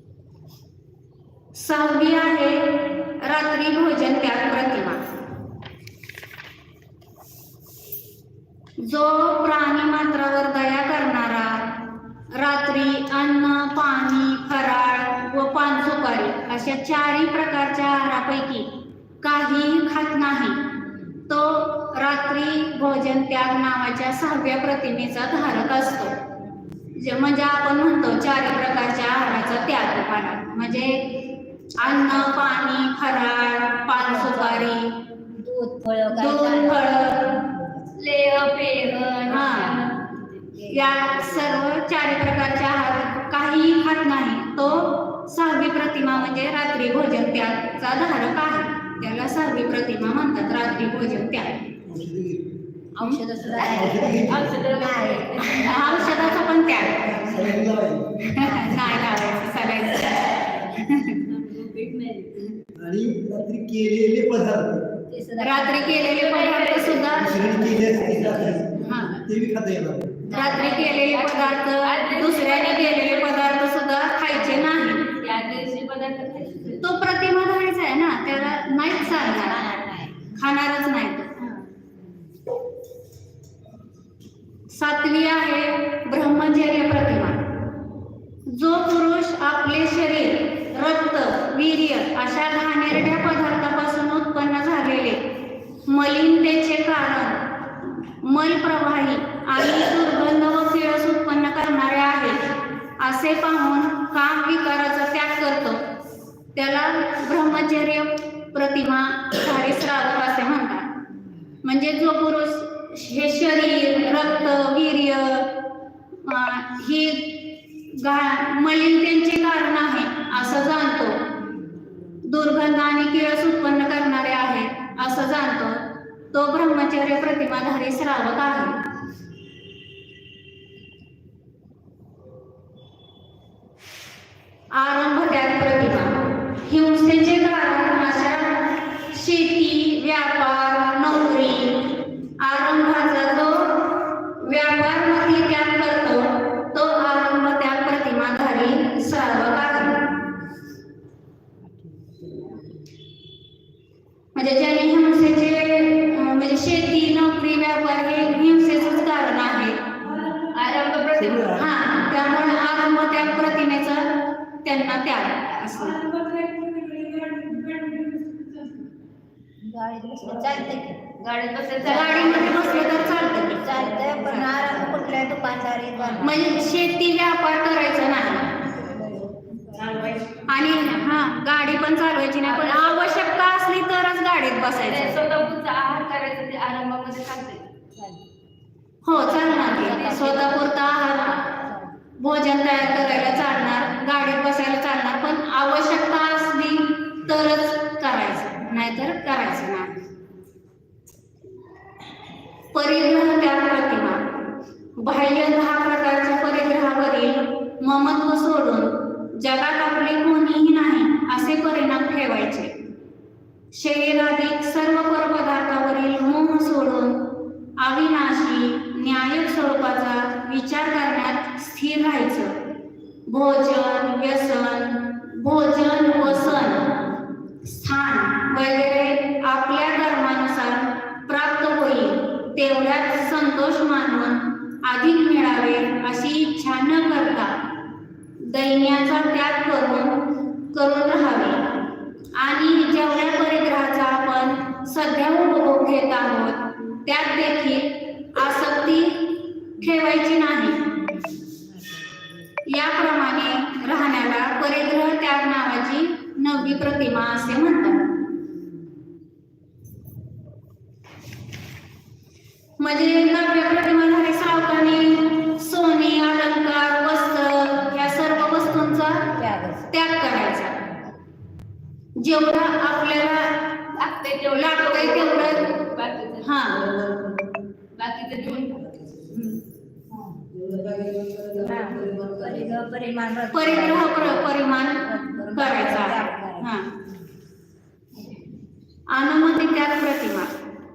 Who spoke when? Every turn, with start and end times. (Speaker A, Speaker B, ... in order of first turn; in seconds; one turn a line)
Speaker A: 1.6-5.0
Speaker A: 8.8-18.7
Speaker A: 19.2-20.6
Speaker B: 20.8-21.2
Speaker A: 21.3-26.1
Speaker B: 26.4-26.8
Speaker A: 27.0-31.1
Speaker B: 31.8-32.6
Speaker A: 31.8-34.9
Speaker B: 33.9-34.7
Speaker B: 35.4-38.0
Speaker A: 36.1-37.4
Speaker C: 38.0-40.4
Speaker A: 39.3-39.9
Speaker B: 40.5-41.8
Speaker A: 40.7-51.7
Speaker D: 51.8-52.5
Speaker B: 53.0-57.6
Speaker D: 53.4-54.6
Speaker C: 53.7-56.8
Speaker A: 55.6-57.2
Speaker D: 57.1-58.3
Speaker A: 58.3-61.2
Speaker B: 58.3-58.8
Speaker C: 61.2-62.5
Speaker D: 62.8-65.0
Speaker B: 65.1-66.2
Speaker A: 65.4-67.6
Speaker C: 66.1-67.5
Speaker D: 67.2-70.3
Speaker B: 67.3-69.0
Speaker A: 68.8-69.2
Speaker B: 70.2-70.7
Speaker A: 70.3-75.2
Speaker C: 70.4-73.6
Speaker C: 75.2-76.9
Speaker A: 76.8-79.7
Speaker B: 78.3-80.4
Speaker A: 80.3-81.3
Speaker A: 84.7-87.4
Speaker A: 88.5-95.2
Speaker A: 95.9-102.4
Speaker A: 103.0-105.8
Speaker A: 106.5-110.9
Speaker A: 111.6-115.6
Speaker A: 116.2-121.2
Speaker B: 120.3-120.7
Speaker A: 122.3-125.8
Speaker B: 125.0-125.2
Speaker A: 126.3-128.8
Speaker A: 134.7-150.1
Speaker B: 152.0-152.6
Speaker A: 154.3-160.2
Speaker C: 160.5-161.6
Speaker D: 161.2-161.9
Speaker A: 161.6-166.1
Speaker C: 166.1-168.0
Speaker B: 169.6-171.0
Speaker C: 171.2-173.1
Speaker A: 171.8-174.3
Speaker B: 171.8-172.5
Speaker B: 173.2-176.7
Speaker D: 173.9-175.2
Speaker A: 176.2-178.6
Speaker B: 178.6-180.0
Speaker C: 179.9-180.4
Speaker A: 180.4-185.3
Speaker C: 182.4-183.3
Speaker C: 184.9-187.7
Speaker B: 187.9-188.2
Speaker A: 189.0-191.3
Speaker B: 189.1-192.0
Speaker C: 189.5-191.4
Speaker A: 192.2-199.9
Speaker B: 193.3-193.8
Speaker A: 202.7-204.2
Speaker A: 205.0-212.7
Speaker A: 213.7-222.5
Speaker A: 223.3-226.9
Speaker A: 227.6-237.5
Speaker A: 238.4-241.7
Speaker A: 242.4-250.8
Speaker B: 251.0-252.3
Speaker A: 252.7-258.1
Speaker A: 262.8-269.3
Speaker B: 269.2-269.9
Speaker A: 269.9-270.8
Speaker A: 272.2-274.0
Speaker C: 273.9-276.7
Speaker A: 274.5-275.8
Speaker A: 276.4-276.9
Speaker D: 276.7-277.7
Speaker C: 277.9-278.9
Speaker D: 278.8-279.6
Speaker A: 279.3-279.6
Speaker D: 280.5-282.9
Speaker B: 281.6-286.8
Speaker A: 283.5-286.9
Speaker A: 289.1-290.5